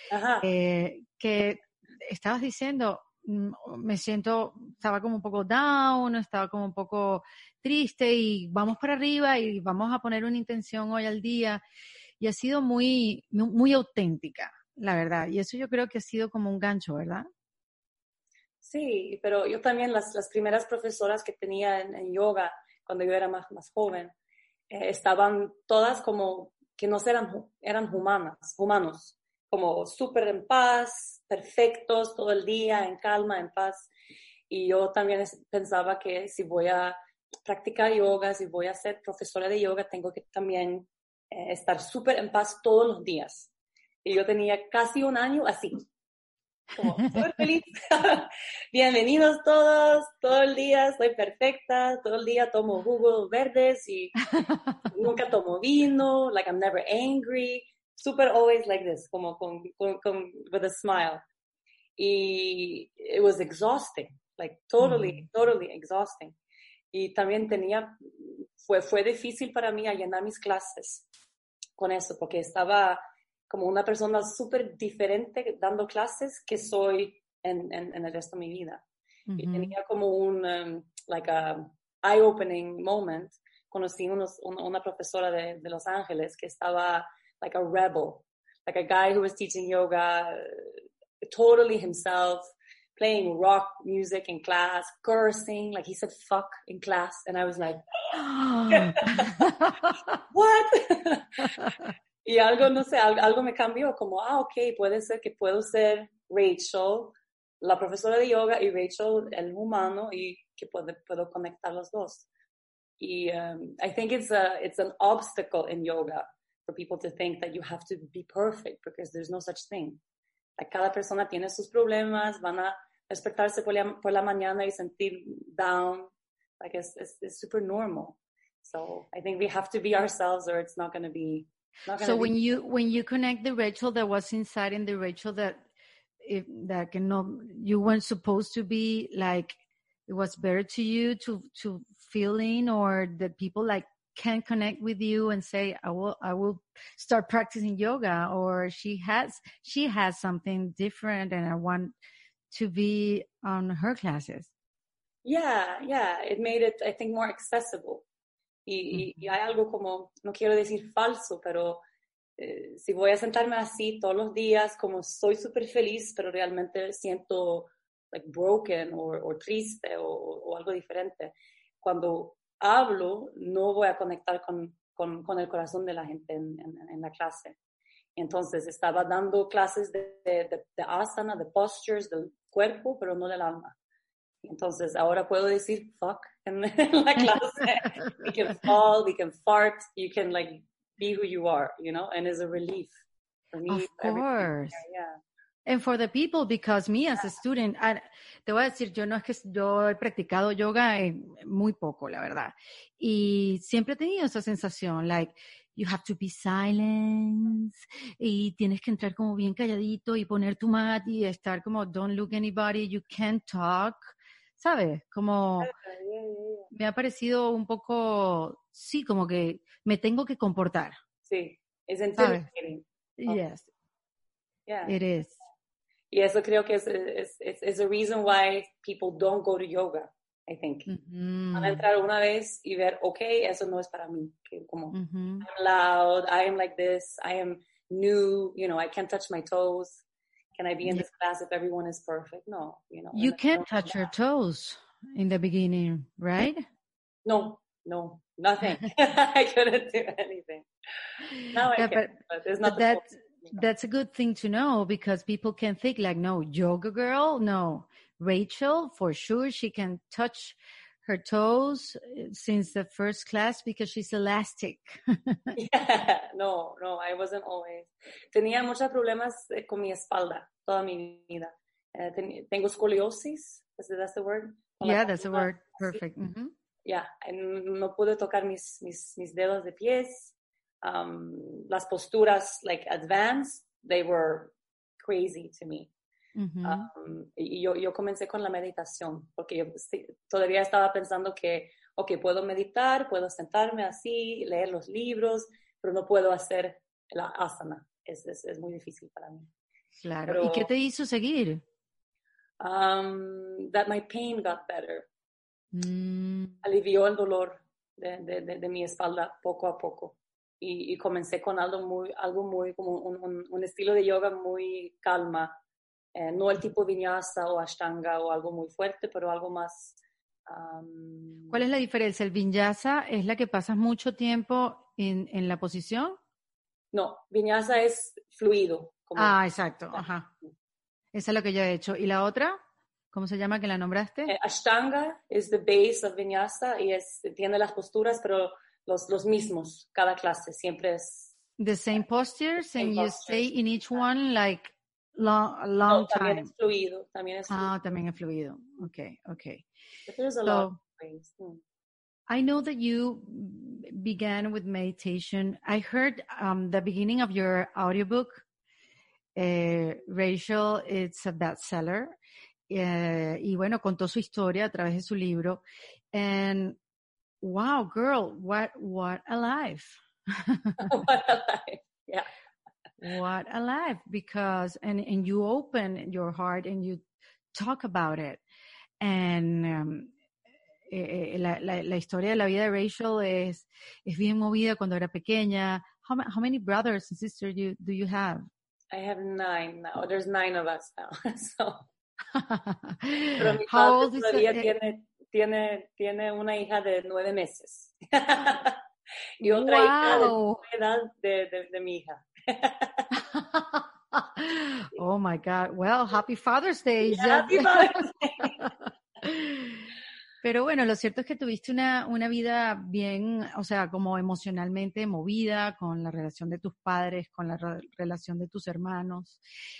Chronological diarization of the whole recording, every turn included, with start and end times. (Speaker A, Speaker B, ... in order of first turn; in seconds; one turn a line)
Speaker A: 0.1-0.5
Speaker B: 0.4-11.6
Speaker B: 12.2-17.2
Speaker A: 18.6-24.1
Speaker A: 24.7-33.9
Speaker A: 34.5-43.5
Speaker A: 44.0-45.9
Speaker A: 46.7-61.2
Speaker A: 62.0-66.3
Speaker B: 64.8-65.2
Speaker A: 66.9-71.0
Speaker A: 71.8-78.8
Speaker B: 79.3-79.7
Speaker A: 79.4-90.7
Speaker A: 91.3-97.8
Speaker B: 98.2-99.8
Speaker A: 98.7-99.5
Speaker A: 100.3-101.7
Speaker A: 102.2-112.2
Speaker A: 113.0-120.0
Speaker A: 120.6-132.3
Speaker B: 132.0-135.6
Speaker B: 136.2-151.9
Speaker B: 152.5-154.5
Speaker A: 155.2-158.0
Speaker A: 158.7-161.8
Speaker A: 162.4-177.6
Speaker A: 178.2-183.7
Speaker A: 184.4-192.9
Speaker A: 193.5-195.2
Speaker B: 193.7-194.8
Speaker B: 195.6-215.7
Speaker A: 215.6-216.7
Speaker B: 216.7-221.0
Speaker A: 221.3-223.4
Speaker B: 222.2-222.5
Speaker B: 223.2-223.7
Speaker A: 224.7-224.9
Speaker B: 224.8-225.4
Speaker A: 226.1-230.9
Speaker B: 230.9-231.8
Speaker A: 231.5-240.0
Speaker B: 234.9-235.4
Speaker A: 240.6-244.1
Speaker B: 243.1-246.6
Speaker A: 247.2-250.7
Speaker A: 251.5-253.6
Speaker B: 251.6-265.6
Speaker A: 265.5-276.0
Speaker B: 274.8-276.5
Speaker A: 276.9-285.9
Speaker B: 286.4-286.9
Speaker A: 286.6-299.5
Speaker B: 299.9-301.6
Speaker A: 300.2-300.7
Speaker A: 302.6-305.1
Speaker B: 305.7-306.6
Speaker A: 306.6-315.5
Speaker A: 316.1-321.6
Speaker B: 321.5-326.2
Speaker A: 326.9-329.4
Speaker B: 329.1-330.3
Speaker B: 331.1-332.6
Speaker B: 333.1-334.3
Speaker A: 334.3-341.3
Speaker B: 341.6-346.5
Speaker A: 342.8-343.4
Speaker A: 345.9-347.9
Speaker B: 347.5-349.6
Speaker A: 350.1-351.6
Speaker B: 350.4-350.8
Speaker B: 352.3-358.4
Speaker B: 359.4-362.1
Speaker B: 362.7-365.6
Speaker B: 366.1-366.8
Speaker B: 367.4-370.9
Speaker A: 370.8-372.3
Speaker B: 373.0-377.0
Speaker B: 377.5-378.4
Speaker B: 379.0-380.1
Speaker B: 380.9-388.4
Speaker A: 388.9-391.8
Speaker B: 392.3-394.7
Speaker A: 393.4-398.8
Speaker B: 399.4-400.6
Speaker A: 399.4-403.1
Speaker B: 403.1-408.0
Speaker A: 407.0-408.6
Speaker B: 409.2-409.8
Speaker B: 410.4-419.4